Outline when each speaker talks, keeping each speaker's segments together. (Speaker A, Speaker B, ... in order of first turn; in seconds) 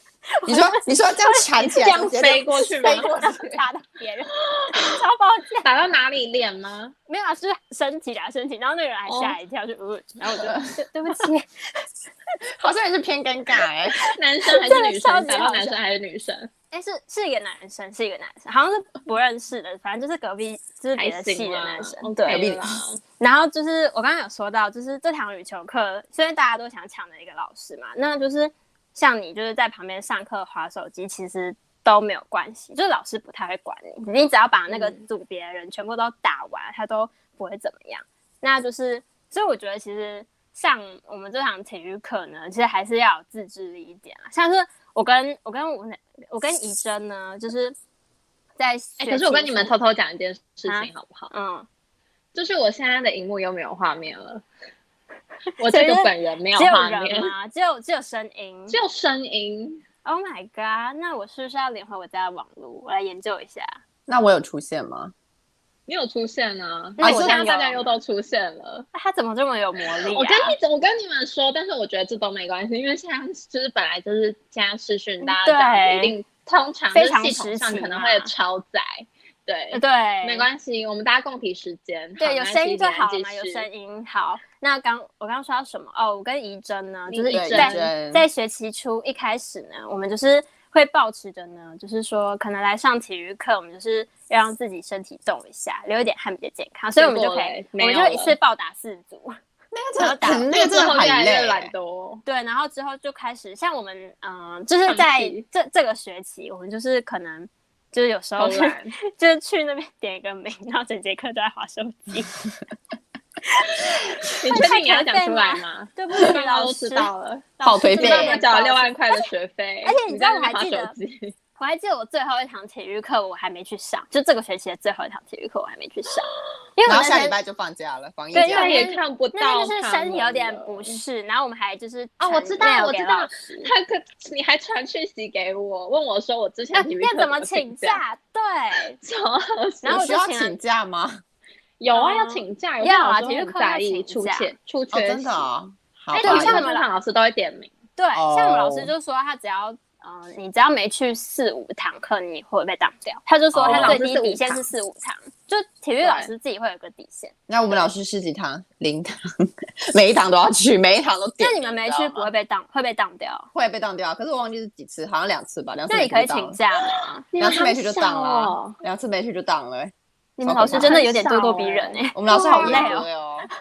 Speaker A: 0.4-1.4, 2.8-5.7, 7.1-11.8, 14.5-15.8, 16.7-22.4, 23.2-47.8, 48.6-49.7, 50.7-51.6, 55.6-58.8, 60.0-63.8, 67.0-67.9, 68.9-70.5, 75.2-76.1, 76.9-78.3, 79.7-80.5, 82.2-99.3, 100.0-100.5, 102.2-112.3, 113.5-119.2, 119.8-120.9, 121.6-127.3, 128.3-133.7, 136.7-139.0, 139.8-140.6, 141.9-144.5, 146.2-146.8, 148.0-157.3, 161.4-163.5, 165.9-167.2, 170.4-173.1
Speaker B: 0.5-3.6, 10.4-10.8, 12.6-14.0, 22.3-22.8, 64.1-65.1, 67.0-67.4, 87.3-88.2, 99.7-101.7, 117.6-118.4, 126.8-128.8, 139.9-141.2, 144.9-146.6, 148.1-148.9, 153.5-154.0, 157.5-162.3, 163.5-166.6, 167.4-171.0, 172.1-173.5
Speaker C: 1.7-3.1, 4.5-4.8, 5.6-6.9, 9.1-9.3, 14.0-16.5, 20.9-23.0, 34.7-35.0, 49.0-51.3, 52.3-54.4, 55.6-57.3, 58.7-59.8, 65.9-68.9, 70.1-83.7, 87.1-87.9, 97.0-98.3, 100.5-102.2, 104.8-105.4, 108.4-108.9, 114.3-121.3, 128.4-131.0, 132.2-138.0, 139.0-140.0, 141.8-145.5, 146.1-147.7, 153.6-154.7, 167.3-168.8, 170.6-173.0